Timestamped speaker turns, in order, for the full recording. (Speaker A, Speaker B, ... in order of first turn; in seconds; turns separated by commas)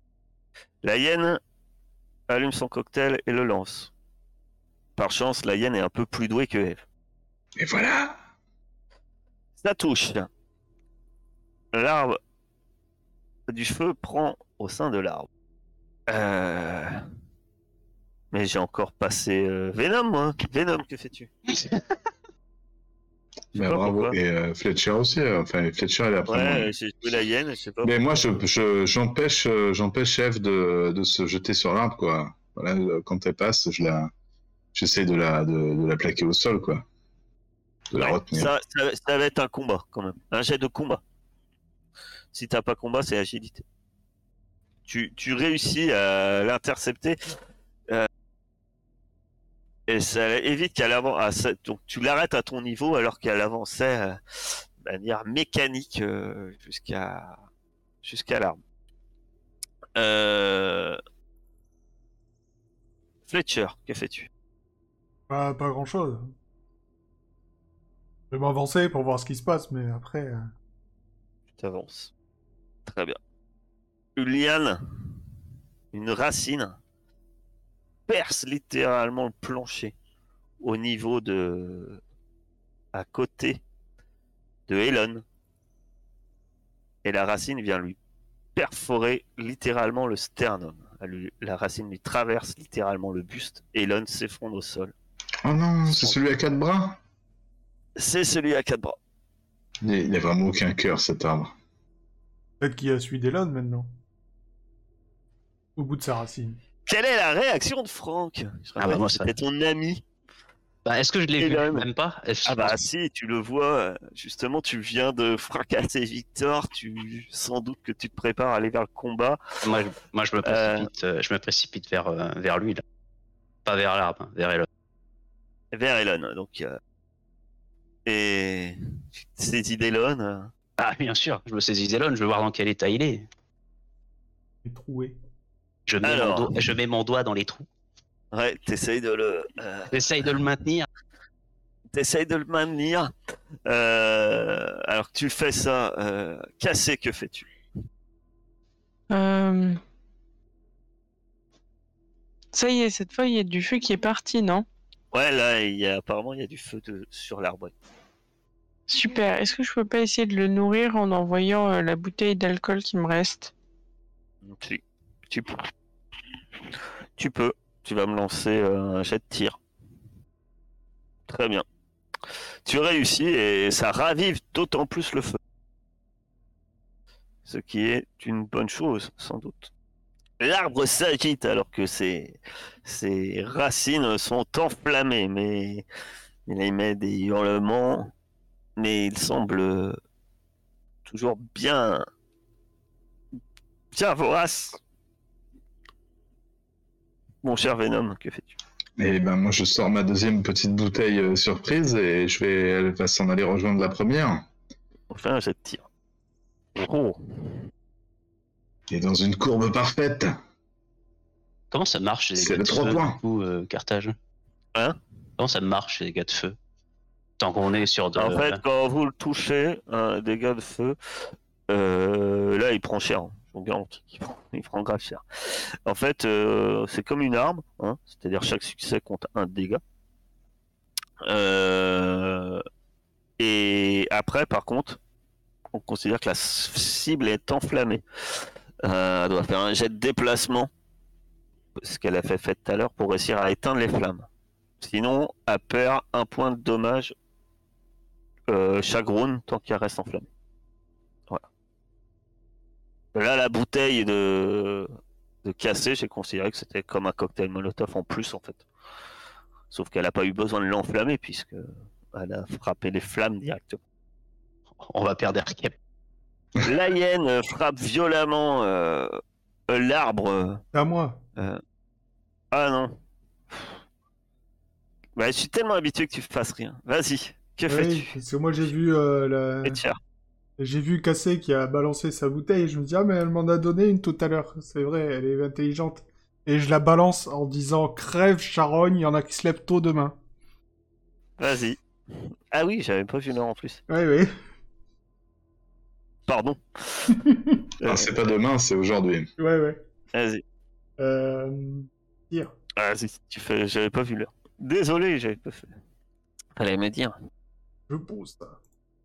Speaker A: 0.8-1.4, Speaker A: 2.3-3.9, Speaker A: 5.0-6.8, Speaker B: 7.6-8.2, Speaker A: 9.6-10.3, Speaker A: 11.7-12.2, Speaker A: 13.5-15.3, Speaker A: 16.1-17.0, Speaker A: 18.3-21.3, Speaker B: 23.5-26.7, Speaker A: 23.6-24.2, Speaker A: 26.3-28.2, Speaker B: 27.8-34.1, Speaker B: 34.7-36.8, Speaker B: 37.9-38.5, Speaker A: 38.0-41.0, Speaker A: 42.3-43.6, Speaker A: 44.9-47.2, Speaker A: 49.9-57.4, Speaker A: 58.0-58.6, Speaker A: 60.0-61.0, Speaker A: 63.3-64.3, Speaker C: 65.3-66.3, Speaker C: 68.3-70.5, Speaker A: 71.5-72.1, Speaker A: 72.9-73.2, Speaker A: 74.2-74.8, Speaker A: 75.9-76.8, Speaker A: 78.1-80.0, Speaker A: 80.6-82.0, Speaker A: 82.9-83.6, Speaker A: 84.7-85.2, Speaker A: 87.0-88.0, Speaker A: 88.5-94.9, Speaker B: 95.4-97.0, Speaker A: 98.0-99.0, Speaker B: 99.8-101.5, Speaker C: 102.6-103.9, Speaker C: 105.8-106.6, Speaker A: 106.9-110.0, Speaker D: 108.8-109.3, Speaker D: 110.8-112.8, Speaker A: 111.4-111.8, Speaker A: 112.5-119.4, Speaker D: 119.6-122.8, Speaker A: 120.4-120.9, Speaker D: 123.6-124.7, Speaker A: 125.7-126.8, Speaker A: 128.1-130.5, Speaker D: 130.8-133.3, Speaker C: 134.6-135.2, Speaker D: 135.9-137.7, Speaker A: 136.0-136.5, Speaker A: 138.3-140.1, Speaker D: 139.9-140.9, Speaker A: 141.9-143.1, Speaker A: 143.6-147.5, Speaker E: 149.1-149.8, Speaker E: 152.5-154.6, Speaker A: 155.1-157.7, Speaker E: 158.9-163.5, Speaker A: 164.4-165.7, Speaker A: 167.2-169.6, Speaker A: 171.3-171.6, Speaker A: 172.3-175.4, Speaker A: 177.5-179.7, Speaker A: 180.4-185.8, Speaker A: 186.5-188.1, Speaker A: 188.8-190.0, Speaker A: 191.1-192.1, Speaker A: 193.9-194.8, Speaker A: 197.4-198.6, Speaker B: 199.0-204.5, Speaker A: 205.1-205.9, Speaker A: 206.8-207.7, Speaker B: 208.9-210.4, Speaker D: 211.7-214.1, Speaker B: 212.4-213.2, Speaker D: 215.4-216.6, Speaker D: 217.4-218.6, Speaker A: 218.2-229.8, Speaker A: 231.2-232.6, Speaker A: 233.4-235.0, Speaker A: 235.7-240.7, Speaker A: 241.8-244.3, Speaker A: 244.8-247.1, Speaker A: 248.5-250.3, Speaker A: 253.1-254.9, Speaker A: 255.4-258.6, Speaker A: 259.7-263.8, Speaker D: 264.8-265.8, Speaker A: 266.6-269.2, Speaker A: 269.7-270.6, Speaker C: 270.7-271.2, Speaker A: 272.5-272.9, Speaker A: 275.2-278.1, Speaker C: 277.7-279.8, Speaker A: 279.6-280.0, Speaker C: 280.6-290.2, Speaker A: 291.4-291.8, Speaker A: 292.5-293.8, Speaker C: 293.9-294.3, Speaker A: 296.3-297.2, Speaker C: 297.2-297.6, Speaker A: 297.8-298.1, Speaker B: 297.8-299.3, Speaker C: 299.4-299.8, Speaker A: 300.1-300.4, Speaker C: 301.0-302.5, Speaker A: 302.8-305.7, Speaker A: 306.6-307.1, Speaker C: 307.9-308.6